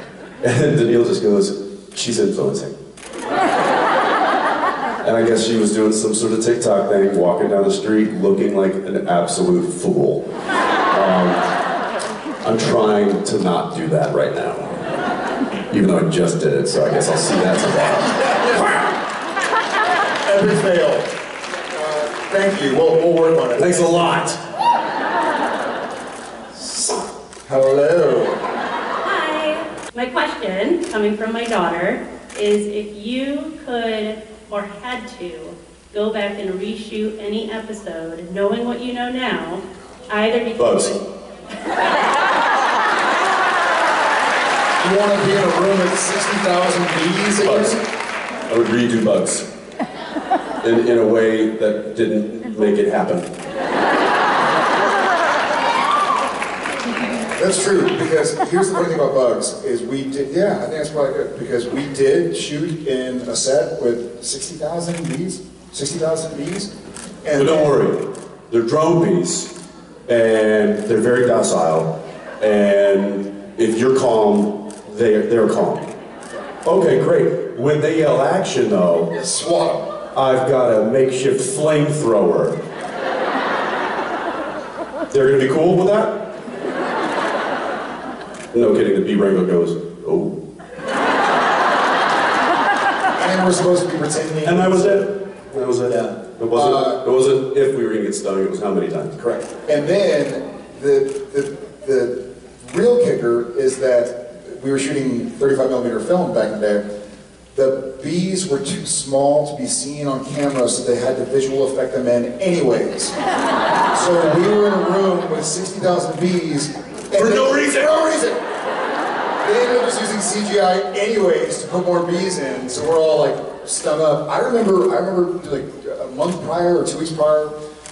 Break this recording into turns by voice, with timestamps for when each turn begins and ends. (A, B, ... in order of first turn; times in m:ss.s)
0:00.4-0:02.8 A
0:05.0-0:10.2 A
0:10.9-0:11.4 A
0:12.4-0:14.8 A
0:15.7-0:18.8 A
0:18.0-0:18.7 B
0:20.2-0:21.1 B
0:21.7-0:24.2 B
0:23.6-0:24.4 A
0:26.5-0:27.1 A
0:27.4-0:28.4 B
0:29.0-0:41.0 C
0:40.6-0:41.0 A
0:44.8-0:47.8 B
0:47.4-0:47.8 A
0:48.5-0:49.5 A
0:50.6-0:53.3 A
0:57.4-1:06.7 B
1:07.2-1:07.8 B
1:07.3-1:09.5 A
1:10.1-1:15.9 A
1:16.6-1:19.1 A
1:19.1-1:19.9 B
1:20.1-1:22.6 A
1:25.1-1:26.2 A
1:28.5-1:30.4 A
1:33.1-1:35.1 B
1:34.4-1:39.2 A
1:35.9-1:37.0 B
1:39.2-1:46.8 B
1:47.5-1:53.1 B
1:53.9-1:58.4 B
1:57.1-1:57.9 A
1:59.4-2:07.5 B